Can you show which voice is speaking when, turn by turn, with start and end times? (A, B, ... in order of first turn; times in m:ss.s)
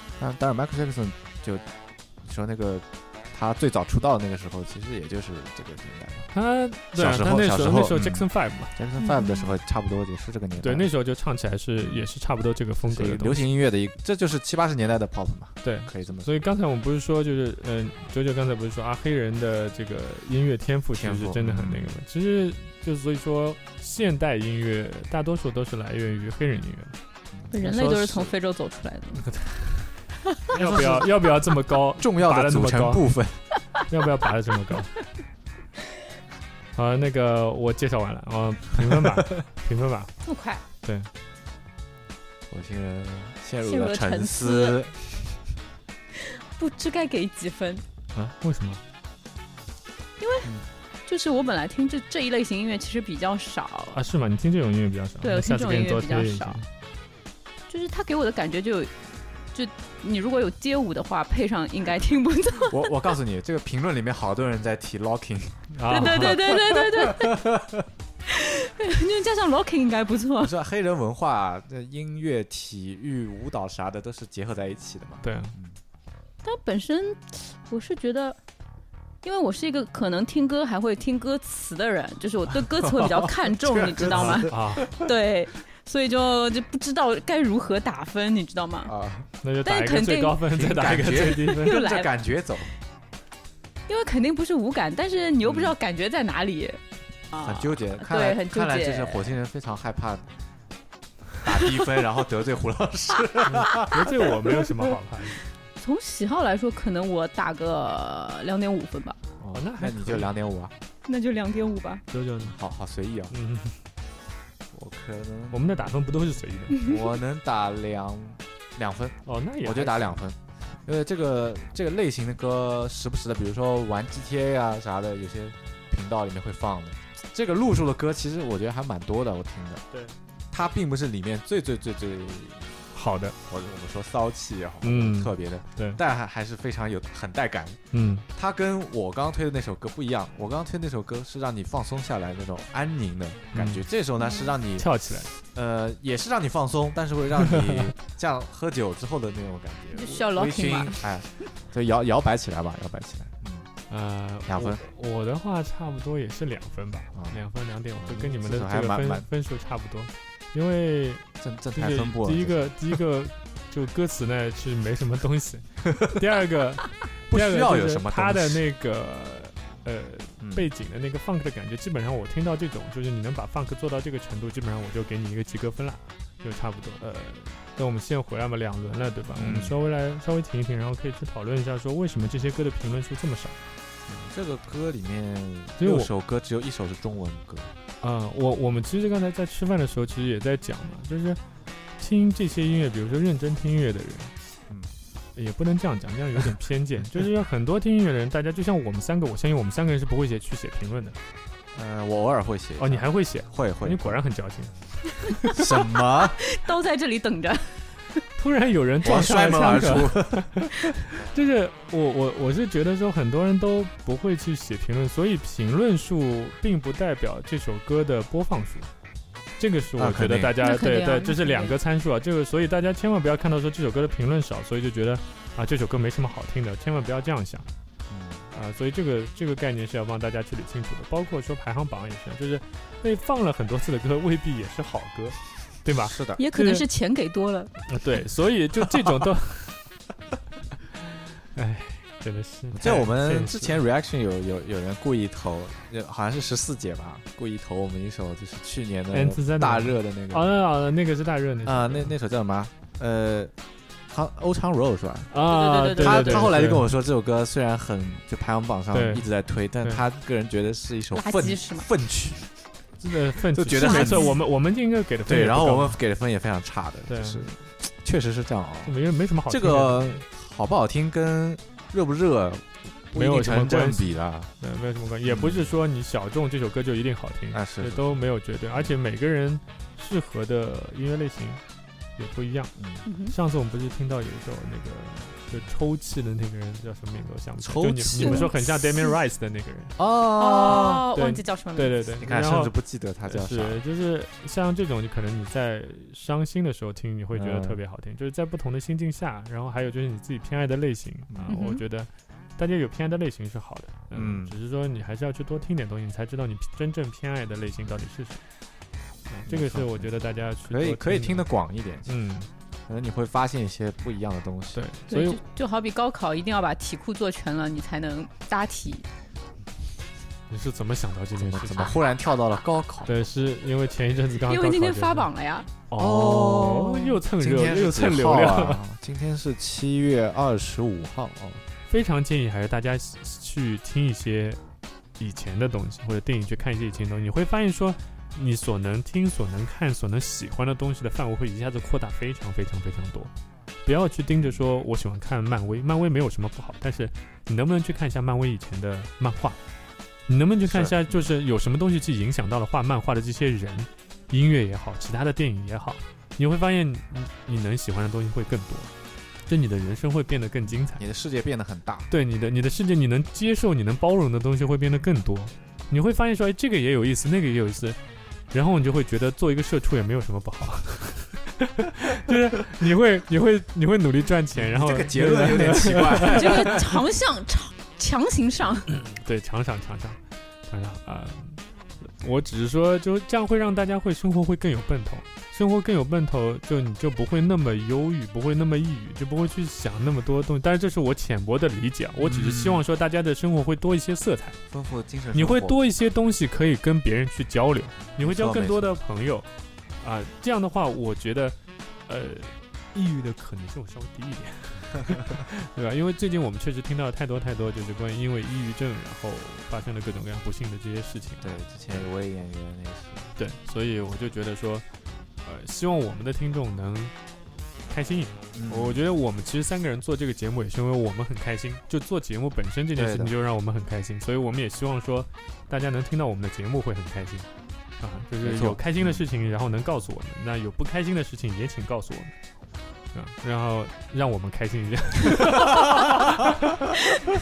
0:00.2-0:01.6 A
0:02.2-0:06.3 A
0:06.3-0:08.7 B
0:06.9-0:10.9 A
0:09.0-0:09.5 C
0:10.6-0:13.4 B
0:12.9-0:16.3 A
0:15.6-0:27.0 B
0:20.9-0:22.0 A
0:27.3-0:28.3 A
0:27.5-0:29.2 C
0:29.2-0:29.9 A
0:30.5-0:33.1 B
0:30.5-0:31.1 A
0:32.0-0:33.4 A
0:33.9-0:34.9 B
0:36.7-0:40.1 B
0:40.2-0:40.6 C
0:40.8-0:41.1 B
0:42.5-0:45.3 A
0:43.6-0:44.8 C
0:46.1-0:47.8 C
0:48.1-0:48.8 B
0:50.2-0:50.5 C
0:51.1-0:54.0 C
0:53.9-0:56.6 B
0:55.2-0:56.6 C
0:57.7-0:58.9 C
0:59.5-1:02.9 C
1:02.7-1:07.9 A
1:05.7-1:06.4 B
1:05.9-1:07.4 C
1:08.2-1:10.5 C
1:10.4-1:15.8 A
1:15.2-1:15.5 B
1:16.4-1:18.4 C
1:19.2-1:28.9 C
1:22.7-1:25.1 A
1:24.0-1:24.8 B
1:28.8-1:29.3 A
1:29.4-1:31.8 B
1:29.6-1:30.4 C
1:30.5-1:32.7 A
1:31.5-1:32.1 C
1:33.9-1:39.4 C
1:35.4-1:35.8 A
1:37.3-1:40.3 A
1:41.4-1:44.6 A
1:43.5-1:45.4 B
1:45.8-1:49.2 C
1:49.4-1:50.7 A
1:49.5-1:50.3 B
1:51.0-1:52.0 C
1:52.1-1:52.5 B
1:52.4-1:53.3 A
1:53.3-1:53.8 B
1:54.7-1:55.9 A
1:55.5-1:56.8 B
1:56.7-1:57.0 C
1:56.8-2:09.8 A
1:59.2-2:00.2 B
2:09.9-2:10.2 B
2:10.5-2:12.8 A
2:12.9-2:13.3 B
2:13.4-2:17.8 A
2:14.8-2:16.0 B
2:17.9-2:18.2 B
2:18.3-2:33.7 A
2:23.5-2:23.8 B
2:24.2-2:24.5 C
2:24.8-2:25.3 B
2:27.4-2:27.9 B
2:29.9-2:31.0 C
2:33.9-3:03.6 B
2:34.5-2:34.8 A
2:37.1-2:37.4 A
2:38.0-2:39.3 A
2:41.4-2:42.7 A
2:45.8-2:46.1 A
2:47.3-2:48.6 A
2:50.4-2:50.7 A
2:59.4-2:59.7 A
3:04.1-3:07.7 A
3:05.8-3:06.1 B
3:08.0-3:11.4 B
3:12.0-3:14.3 B
3:15.4-3:21.2 B
3:21.7-3:24.2 A
3:22.8-3:25.6 B
3:25.5-3:26.4 A
3:26.1-3:27.8 C
3:28.4-3:38.9 B
3:29.0-3:30.7 A
3:39.6-3:47.6 B
3:40.0-3:40.6 A
3:40.6-3:41.8 C
3:48.1-3:48.5 A
3:48.5-3:56.8 B
3:55.9-3:56.4 A
3:56.4-3:57.8 C
3:57.9-3:59.8 B
4:01.4-4:03.8 B
4:02.7-4:10.5 A
4:09.1-4:12.1 B
4:11.6-4:13.5 A
4:14.1-4:15.3 A
4:15.3-4:16.9 B
4:15.4-4:16.5 C
4:15.9-4:22.5 A
4:18.9-4:19.2 B
4:21.1-4:21.9 C
4:23.0-4:26.0 B
4:23.5-4:24.4 A
4:23.8-4:24.4 C
4:25.2-4:34.5 A
4:27.1-4:27.5 B
4:28.8-4:30.2 B
4:33.1-4:41.6 B
4:35.2-4:35.7 A
4:37.5-4:38.9 A
4:42.2-4:42.7 B
4:42.8-4:43.0 A
4:43.0-4:43.3 C
4:43.3-4:49.9 B
4:47.6-4:48.5 A
4:48.1-4:49.2 C
4:50.0-4:51.1 A
4:50.3-4:51.9 C
4:51.1-4:52.7 B
4:52.2-4:53.8 A
4:53.3-5:08.4 B
4:57.3-4:57.8 A
5:01.3-5:01.6 A
5:01.5-5:01.8 C
5:04.1-5:04.6 A
5:09.3-5:11.4 B
5:09.5-5:10.2 A
5:10.7-5:12.1 A
5:12.1-5:12.5 B
5:12.9-5:14.8 A
5:14.7-5:15.4 B
5:15.1-5:19.1 C
5:20.5-5:22.0 B
5:21.4-5:23.1 A
5:23.0-5:25.3 B
5:24.4-5:25.7 C
5:25.9-5:28.8 B
5:26.0-5:31.6 A
5:31.9-5:34.6 B
5:35.2-5:43.3 B
5:43.8-5:49.6 B
5:50.3-5:58.9 B
5:50.6-5:51.3 A
5:59.5-6:01.0 B
6:01.0-6:02.1 A
6:02.1-6:08.0 B
6:08.5-6:16.8 B
6:14.5-6:17.0 A
6:16.3-6:18.9 C
6:18.9-6:34.6 B
6:32.2-6:32.8 A
6:34.7-6:35.8 A
6:35.3-6:39.5 B
6:38.2-6:39.0 A
6:40.0-6:41.6 B
6:42.1-6:51.6 B
6:51.4-6:53.4 A
6:53.4-6:54.8 B
6:55.4-6:57.1 B
6:57.9-7:07.5 B
6:58.5-6:59.0 A
7:03.0-7:03.3 A
7:08.0-7:12.3 B
7:08.4-7:09.2 A
7:13.1-7:16.7 B
7:15.4-7:16.6 A